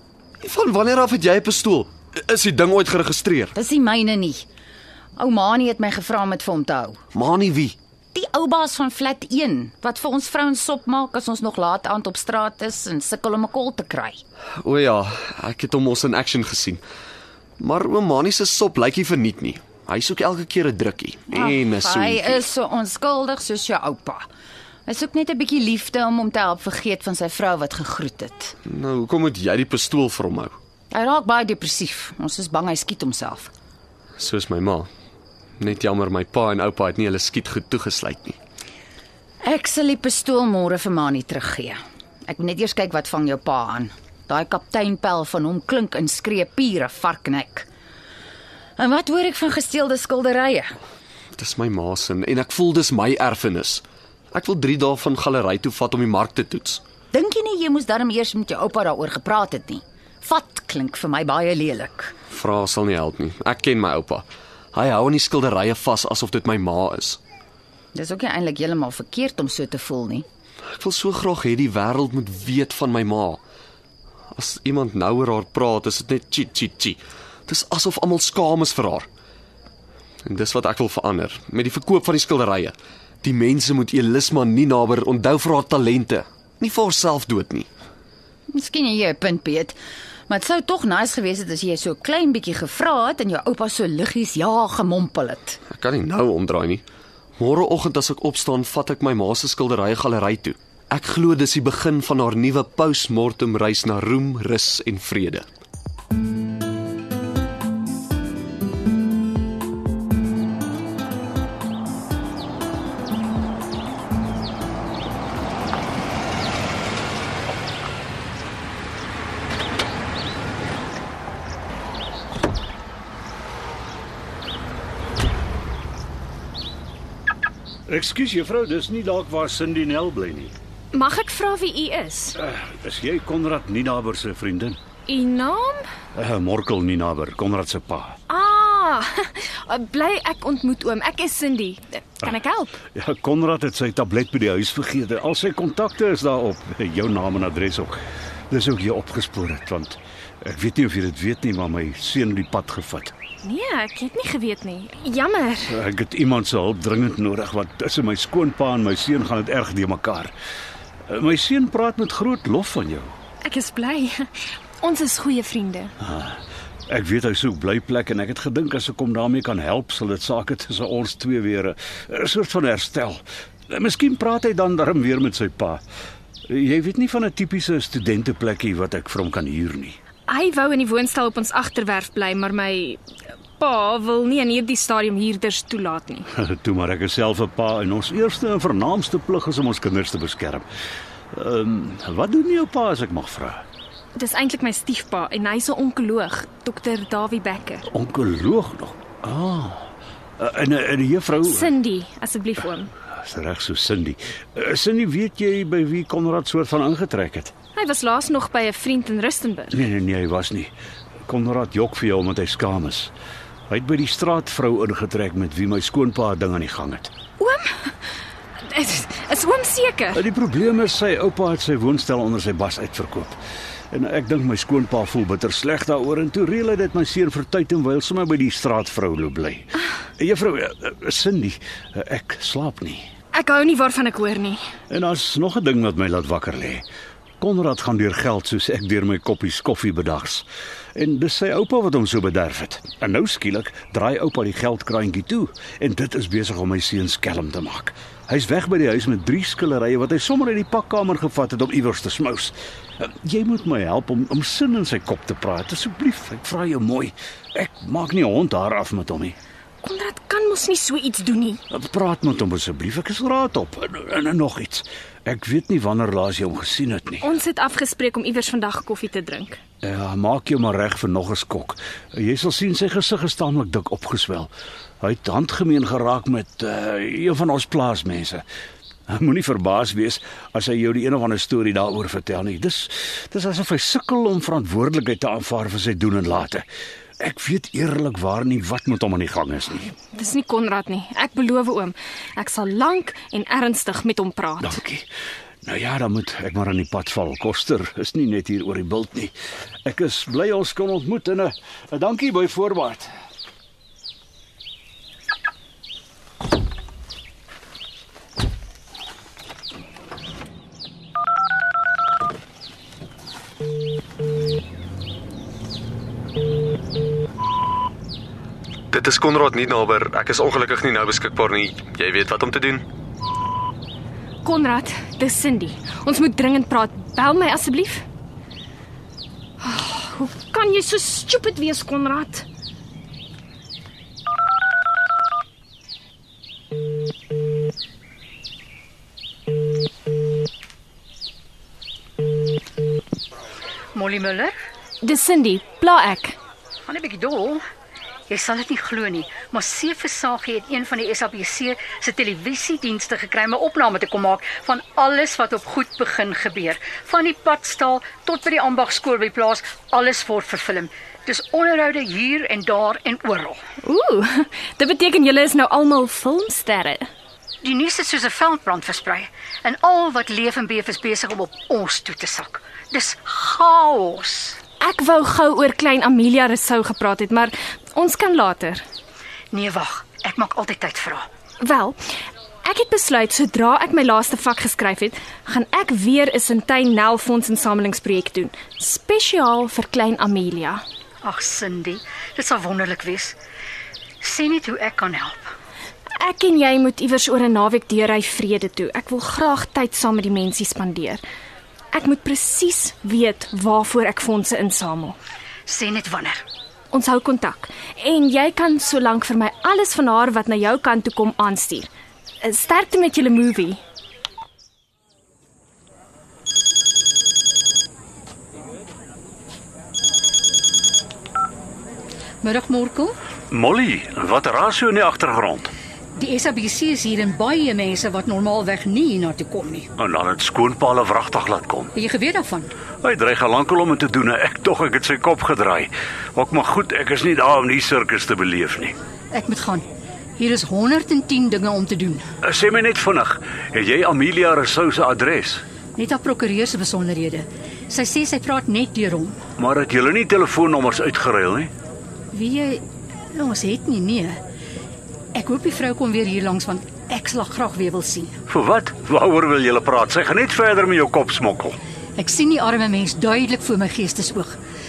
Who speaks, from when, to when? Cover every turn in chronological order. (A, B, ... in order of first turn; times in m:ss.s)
0:00.4-0:03.5 A
0:03.5-0:04.4 B
0:05.2-0:07.0 B
0:07.1-0:07.8 A
0:08.1-0:14.2 B
0:14.6-0:16.8 A
0:17.6-0:22.4 A
0:21.3-0:24.2 B
0:24.9-0:28.5 B
0:28.6-0:30.6 A
0:30.9-0:33.5 B
0:34.2-0:34.9 A
0:35.6-0:38.4 A
0:39.4-0:41.8 B
0:42.3-0:47.7 B
0:48.8-0:50.8 B
0:51.4-0:56.8 A
0:57.1-1:02.1 B
1:02.3-1:07.2 A
1:07.9-1:10.2 B
1:10.8-1:13.4 A
1:14.3-1:19.1 A
1:20.2-1:27.7 A
1:28.5-1:29.8 B
1:30.3-1:35.6 B
1:35.7-1:36.8 A
1:37.4-1:45.4 A
2:07.9-2:10.5 C
2:10.9-2:12.4 D
2:12.4-2:14.8 C
2:15.1-2:15.9 D
2:16.1-2:18.2 C
2:18.3-2:22.8 D
2:22.9-2:28.0 C
2:28.5-2:33.1 C
2:33.4-2:35.8 D
2:35.7-2:40.3 C
2:41.1-2:43.1 C
2:43.4-2:45.9 D
2:46.0-2:55.8 C
2:56.5-3:00.0 C
3:00.3-3:03.0 D
3:03.6-3:06.3 D
3:06.3-3:10.6 C
3:11.3-3:13.6 C
3:14.1-3:17.9 D
3:17.9-3:21.7 C
3:21.4-3:22.9 D
3:23.2-3:27.5 C
3:27.7-3:29.8 D
3:29.7-3:30.7 C
3:31.3-3:33.1 C
3:33.7-3:37.1 C
3:37.4-3:37.9 D
3:38.7-3:40.2 D
3:40.1-3:43.4 C
3:43.9-3:53.1 C
3:53.3-3:54.6 D
3:54.9-3:56.8 C
3:57.4-4:00.4 C
4:01.0-4:19.4 C
4:19.8-4:21.6 D
4:21.7-4:27.2 C
4:27.2-4:29.6 D
4:29.8-4:34.5 C
4:35.0-4:38.4 C
4:39.1-4:46.6 C
4:47.2-4:49.9 C
4:50.1-4:54.8 D
4:54.6-4:55.1 C
4:55.6-4:59.3 C
4:59.8-5:03.1 C
5:18.9-5:22.8 A
5:24.4-5:28.0 D
5:29.6-5:32.5 D
5:43.9-5:44.5 E
5:45.0-5:46.4 D
5:46.9-5:47.6 E
5:48.3-6:03.6 E
6:03.8-6:07.1 D
6:07.6-6:14.6 E
6:14.8-6:18.8 D
6:19.5-6:21.2 E
6:21.6-6:22.0 D
6:22.6-6:30.8 D
6:31.2-6:33.4 E
6:34.2-6:35.4 E
6:36.2-6:41.2 D
6:41.9-6:45.2 D
6:45.7-6:46.4 E
6:46.9-6:51.9 D
6:52.4-6:53.8 D
7:02.4-7:03.1 E
7:03.5-7:05.7 C
7:06.2-7:09.8 E
7:10.0-7:11.9 C
7:12.0-7:12.7 E
7:13.0-7:19.0 C
7:19.3-7:19.8 E
7:20.4-7:22.2 E
7:22.4-7:25.6 C
7:26.0-7:29.4 E
7:29.6-7:31.7 C
7:32.3-7:34.4 E
7:35.3-7:38.3 E
7:38.5-7:41.8 C
7:42.2-7:44.6 E